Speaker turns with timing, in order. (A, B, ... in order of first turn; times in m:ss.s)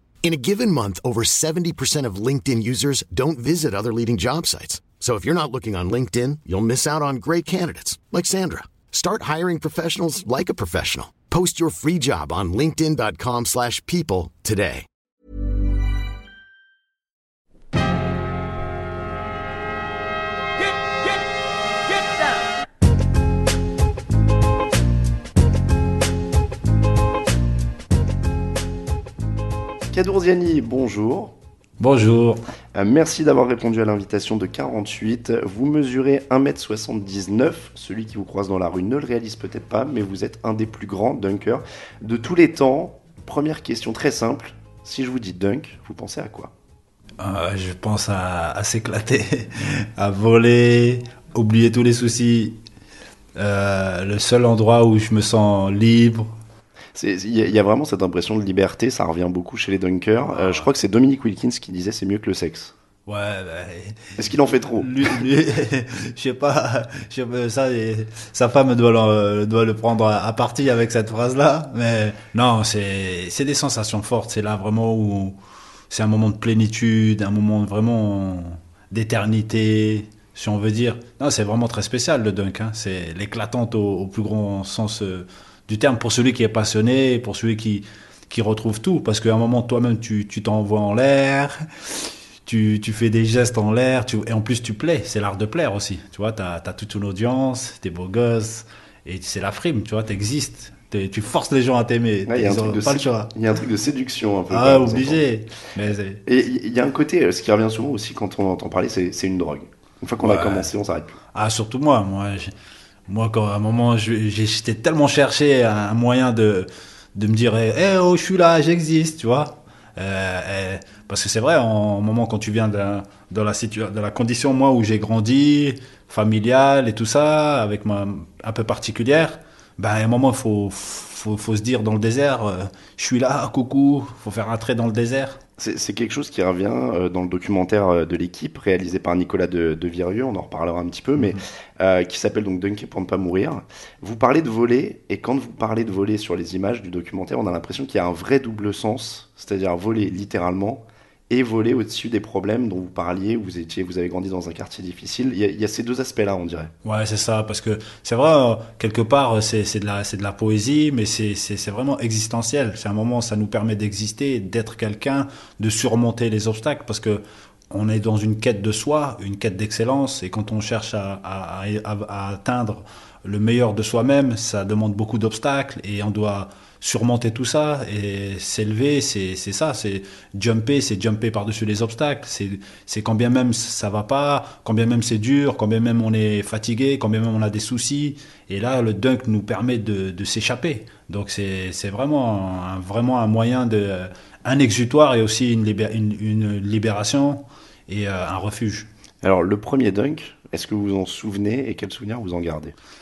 0:00.2-0:14.9 A
0:29.9-0:31.3 B
0:31.8-0:32.4 C
0:32.7-0:46.5 B
0:47.2-0:52.6 C
0:53.4-0:56.3 C
0:57.0-1:02.7 B
1:00.4-1:00.7 C
1:03.1-1:04.2 C
1:04.2-1:05.2 B
1:04.8-1:15.4 C
1:15.9-1:43.3 C
1:42.3-1:45.2 B
1:44.5-1:46.2 C
1:46.3-1:51.2 B
1:50.2-1:50.7 C
1:51.3-1:52.5 C
1:53.1-2:15.4 C
2:15.6-2:36.7 B
2:36.8-3:18.9 C
3:19.2-3:22.8 B